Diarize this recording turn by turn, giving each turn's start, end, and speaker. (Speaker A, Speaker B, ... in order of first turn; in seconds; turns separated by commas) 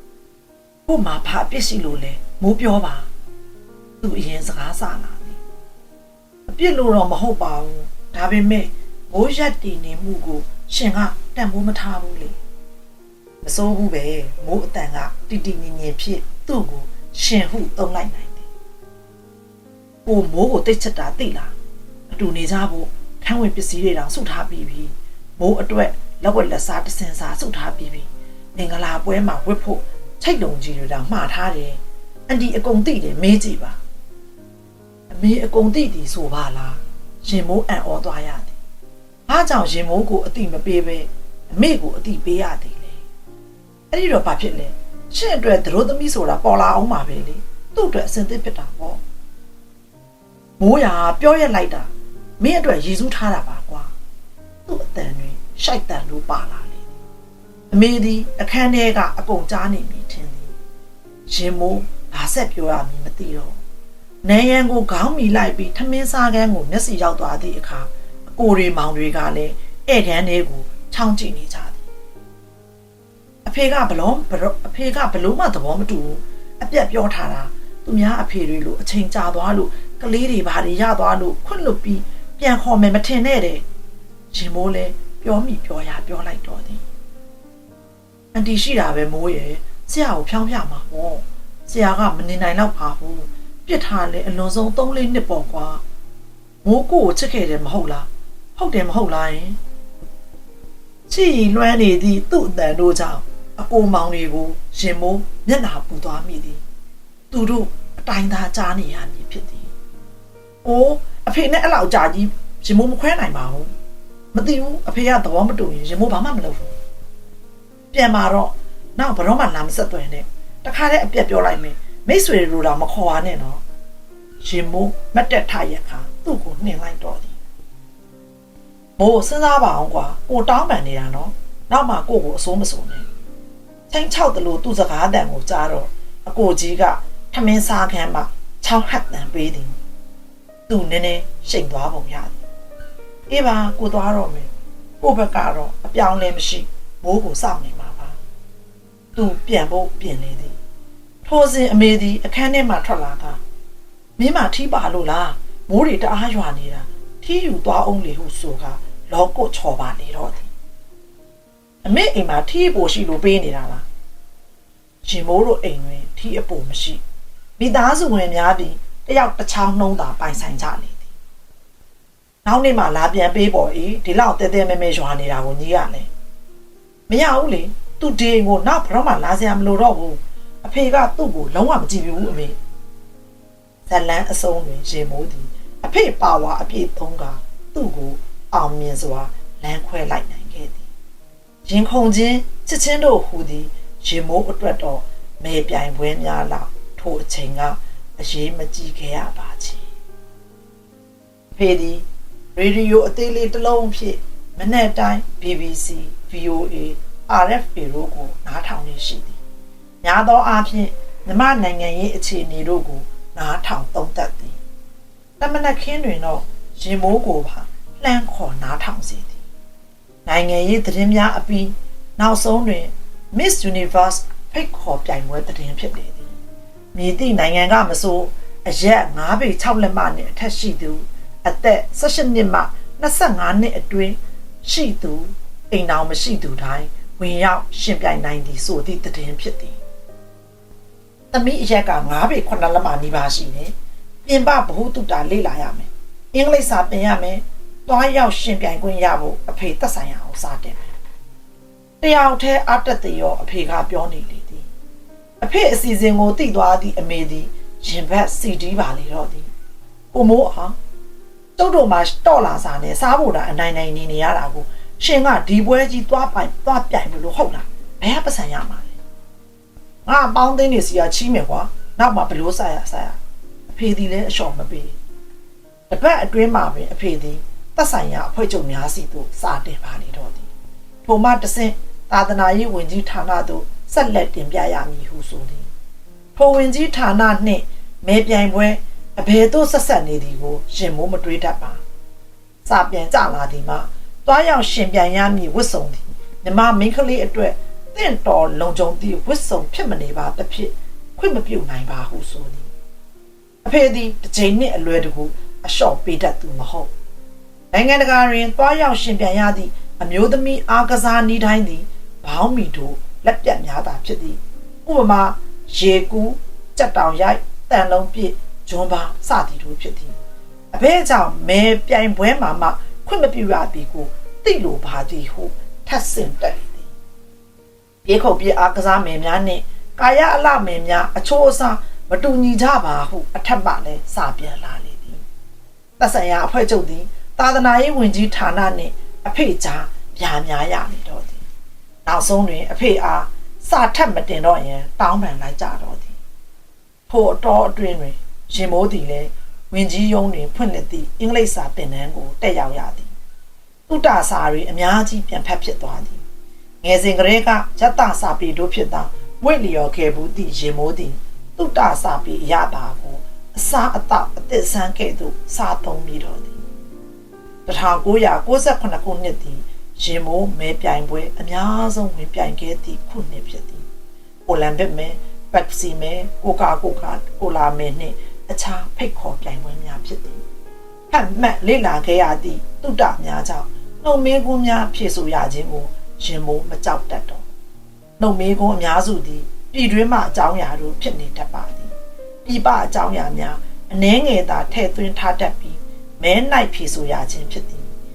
Speaker A: 0.9-3.1, Speaker A: 4.0-5.4, Speaker A: 6.5-12.4, Speaker A: 13.4-18.4, Speaker A: 20.1-21.5, Speaker A: 22.1-33.8, Speaker A: 35.1-38.5, Speaker A: 39.3-43.0, Speaker A: 43.9-49.0, Speaker A: 50.6-53.9, Speaker A: 54.7-56.9, Speaker A: 57.7-60.5, Speaker A: 61.3-63.6, Speaker A: 64.2-71.8, Speaker A: 73.4-83.6, Speaker A: 84.3-86.8, Speaker A: 88.3-95.8, Speaker A: 96.6-99.6, Speaker A: 101.1-106.6, Speaker A: 107.3-109.7, Speaker A: 110.6-113.7, Speaker A: 114.3-116.7, Speaker A: 117.9-123.6, Speaker A: 124.4-127.3, Speaker A: 129.0-133.1, Speaker A: 133.9-139.8, Speaker A: 140.7-142.4, Speaker A: 143.3-144.5, Speaker A: 145.0-148.2, Speaker A: 149.1-150.6, Speaker A: 151.2-153.4, Speaker A: 154.2-160.5, Speaker A: 161.8-163.8, Speaker A: 165.0-167.0, Speaker A: 167.6-171.1, Speaker A: 172.4-176.1, Speaker A: 177.1-182.6, Speaker A: 183.9-190.8, Speaker A: 191.6-199.8, Speaker A: 201.6-209.4, Speaker A: 210.0-214.6, Speaker A: 215.4-219.4, Speaker A: 220.2-226.3, Speaker A: 226.9-239.8, Speaker A: 241.3-243.7, Speaker A: 244.2-250.9, Speaker A: 252.0-254.7, Speaker A: 255.4-259.5, Speaker A: 260.1-260.8, Speaker A: 261.6-268.9, Speaker A: 270.1-273.2, Speaker A: 273.7-275.0, Speaker A: 275.9-280.5, Speaker A: 281.0-285.7, Speaker A: 286.4-291.8, Speaker A: 292.6-302.7, Speaker A: 303.6-306.9, Speaker A: 307.7-320.1, Speaker A: 320.7-326.9, Speaker A: 328.0-335.2, Speaker A: 336.0-341.4, Speaker A: 342.1-346.1, Speaker A: 347.1-353.1, Speaker A: 353.9-356.2, Speaker A: 356.8-366.6, Speaker A: 367.6-373.8, Speaker A: 374.4-380.4, Speaker A: 381.1-387.4, Speaker A: 388.2-391.9, Speaker A: 392.4-397.9